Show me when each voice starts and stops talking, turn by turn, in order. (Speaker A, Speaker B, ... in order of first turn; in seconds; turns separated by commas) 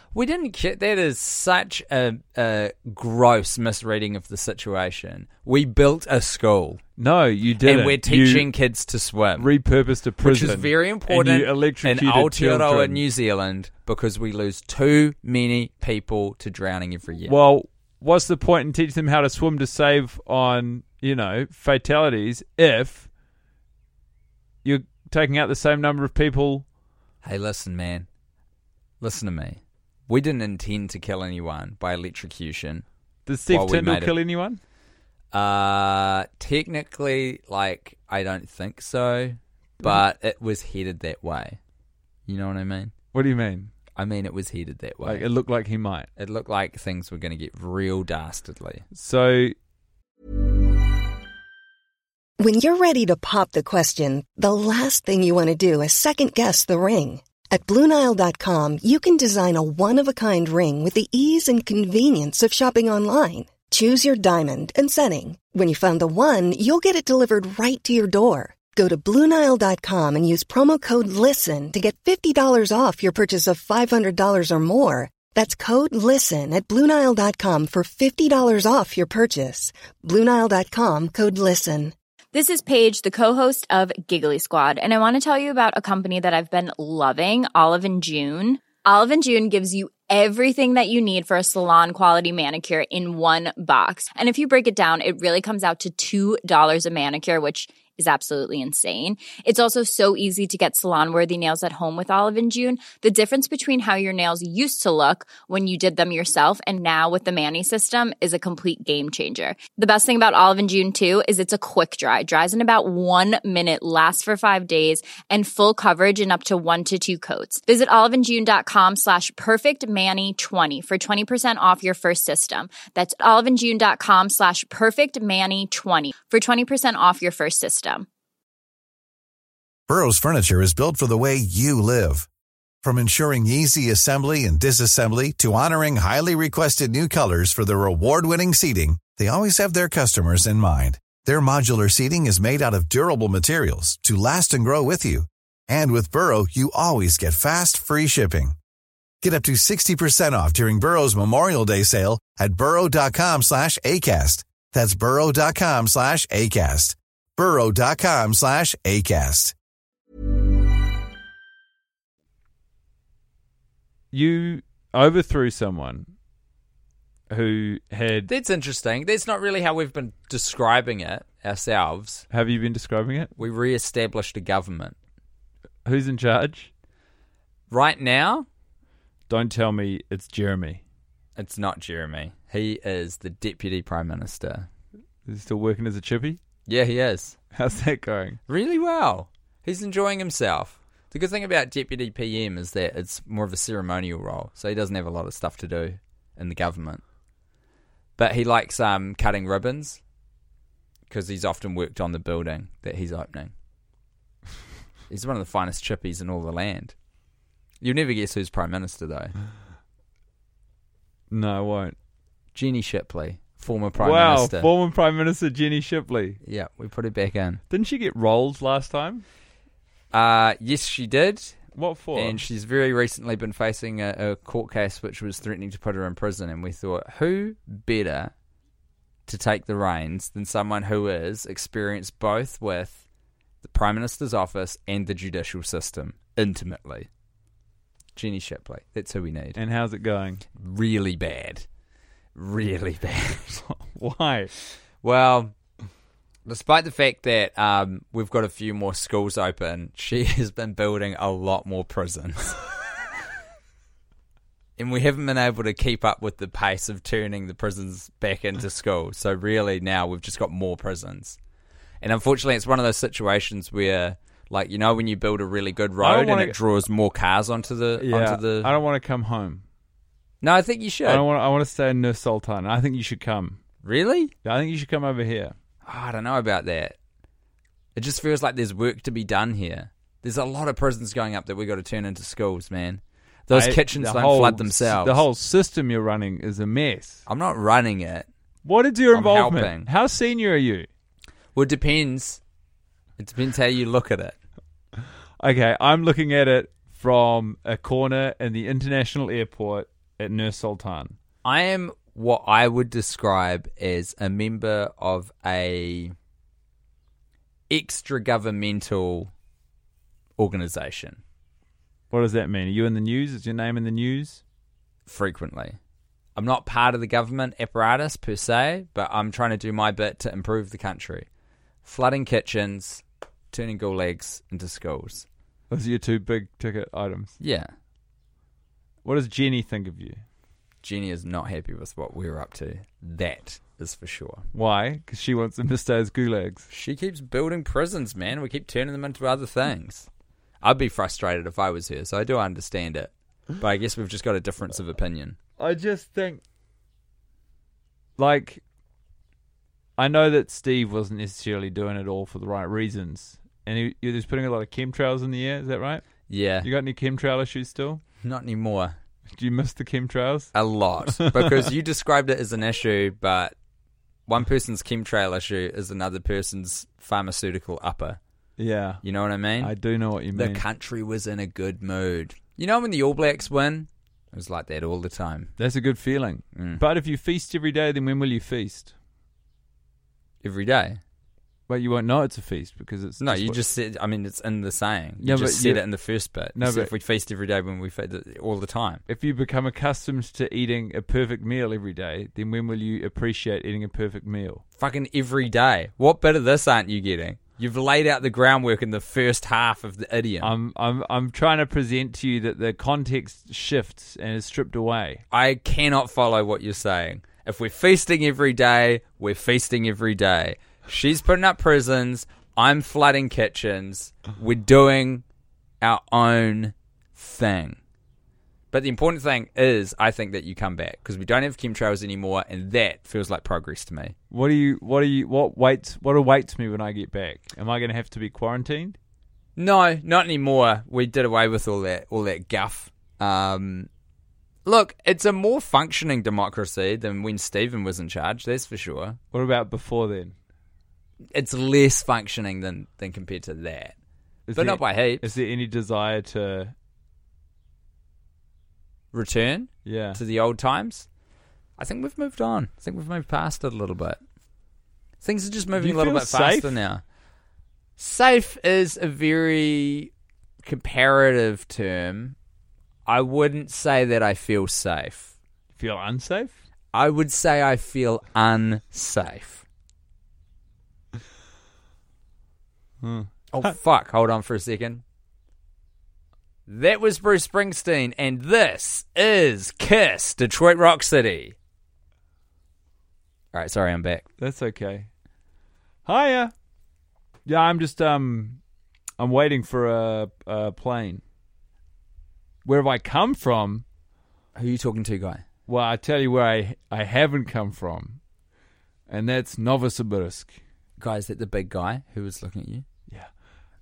Speaker A: 0.1-6.8, Speaker B: 7.0-8.5, Speaker A: 7.6-9.5, Speaker B: 9.4-13.0, Speaker A: 10.2-17.4, Speaker B: 17.2-23.1, Speaker B: 24.6-26.6, Speaker A: 27.2-28.1, Speaker A: 29.0-32.8, Speaker B: 33.2-34.6, Speaker A: 33.5-34.1, Speaker A: 35.3-41.6, Speaker A: 42.3-42.9, Speaker B: 43.1-43.7, Speaker A: 44.0-45.3, Speaker B: 45.0-46.1, Speaker A: 46.2-48.8, Speaker B: 48.9-49.5, Speaker C: 52.4-81.9, Speaker D: 82.3-128.1, Speaker E: 129.9-132.3, Speaker E: 132.8-148.5, Speaker E: 149.2-159.5, Speaker B: 164.1-166.1, Speaker B: 167.3-168.3, Speaker A: 168.3-172.2, Speaker B: 172.3-173.3, Speaker A: 173.4-174.9, Speaker B: 175.8-176.7, Speaker A: 177.7-178.4, Speaker B: 179.3-180.8, Speaker A: 181.3-184.7, Speaker B: 185.2-186.4, Speaker A: 186.7-187.4, Speaker B: 187.5-188.4, Speaker A: 188.5-197.0, Speaker A: 198.2-200.0, Speaker A: 201.1-203.5, Speaker A: 205.1-206.9, Speaker A: 207.8-209.3, Speaker B: 211.3-211.9, Speaker A: 212.5-214.7, Speaker B: 214.0-216.4, Speaker A: 216.4-217.6, Speaker B: 217.7-219.2, Speaker A: 220.1-221.6, Speaker B: 221.7-222.4, Speaker A: 222.1-228.3, Speaker A: 229.3-233.0, Speaker A: 233.6-237.1, Speaker A: 238.2-239.6, Speaker B: 239.5-240.4, Speaker A: 240.6-241.6, Speaker A: 242.3-243.7, Speaker B: 243.8-244.5, Speaker A: 245.0-245.5, Speaker A: 246.4-252.7, Speaker A: 254.8-261.4, Speaker A: 262.0-268.7, Speaker B: 266.0-266.6, Speaker B: 268.0-269.6, Speaker A: 270.4-271.2, Speaker B: 271.0-273.6, Speaker A: 273.8-274.3, Speaker B: 274.4-275.5, Speaker A: 275.9-276.9, Speaker A: 277.9-285.2, Speaker B: 283.5-287.2, Speaker A: 287.3-288.3, Speaker B: 288.6-290.9, Speaker A: 289.1-289.9, Speaker A: 291.5-292.4, Speaker A: 293.2-294.4, Speaker B: 295.4-301.1, Speaker A: 301.4-306.1, Speaker A: 307.7-309.3, Speaker A: 310.4-311.2, Speaker B: 312.1-314.4, Speaker A: 315.1-315.8, Speaker A: 316.4-321.3, Speaker A: 321.8-325.2, Speaker B: 325.7-327.4, Speaker A: 327.4-327.7, Speaker B: 329.0-330.2, Speaker A: 330.8-334.5, Speaker B: 334.5-336.7, Speaker A: 336.7-340.1, Speaker A: 340.6-345.4, Speaker B: 345.6-346.4, Speaker B: 348.2-348.6, Speaker B: 350.0-356.0, Speaker A: 356.3-356.7, Speaker B: 356.6-358.0, Speaker A: 358.2-358.9, Speaker B: 359.3-360.5, Speaker A: 360.5-363.5, Speaker B: 361.1-361.7, Speaker A: 364.3-368.2, Speaker B: 368.6-369.0, Speaker A: 369.0-369.7, Speaker B: 369.6-370.6, Speaker A: 370.3-375.5, Speaker B: 375.6-378.9, Speaker A: 376.5-376.8, Speaker A: 380.4-381.0, Speaker B: 381.7-383.6, Speaker A: 383.2-389.0, Speaker B: 385.2-385.8, Speaker B: 386.6-386.9, Speaker B: 389.1-394.6, Speaker A: 394.8-400.5, Speaker B: 400.4-405.2, Speaker A: 405.3-415.2, Speaker A: 415.8-417.8, Speaker A: 418.7-424.1, Speaker B: 424.3-429.0, Speaker A: 429.6-433.9, Speaker A: 434.6-439.2, Speaker B: 439.3-440.3, Speaker A: 441.3-443.9, Speaker B: 444.5-446.7, Speaker A: 444.6-445.3, Speaker A: 449.1-451.1, Speaker B: 449.8-450.2, Speaker A: 451.8-454.2, Speaker A: 455.2-457.0, Speaker B: 455.8-456.8, Speaker A: 458.0-460.1, Speaker A: 460.6-462.3, Speaker A: 463.1-465.3, Speaker B: 465.7-466.6, Speaker A: 466.9-469.6, Speaker B: 473.0-473.7, Speaker A: 473.5-475.0, Speaker A: 476.7-481.5, Speaker A: 483.5-484.2, Speaker B: 484.4-485.1, Speaker B: 486.1-486.5, Speaker B: 487.4-488.6, Speaker B: 489.2-491.2, Speaker B: 492.6-493.8, Speaker A: 494.5-495.4, Speaker B: 495.7-498.2, Speaker B: 499.1-500.6, Speaker A: 501.0-502.8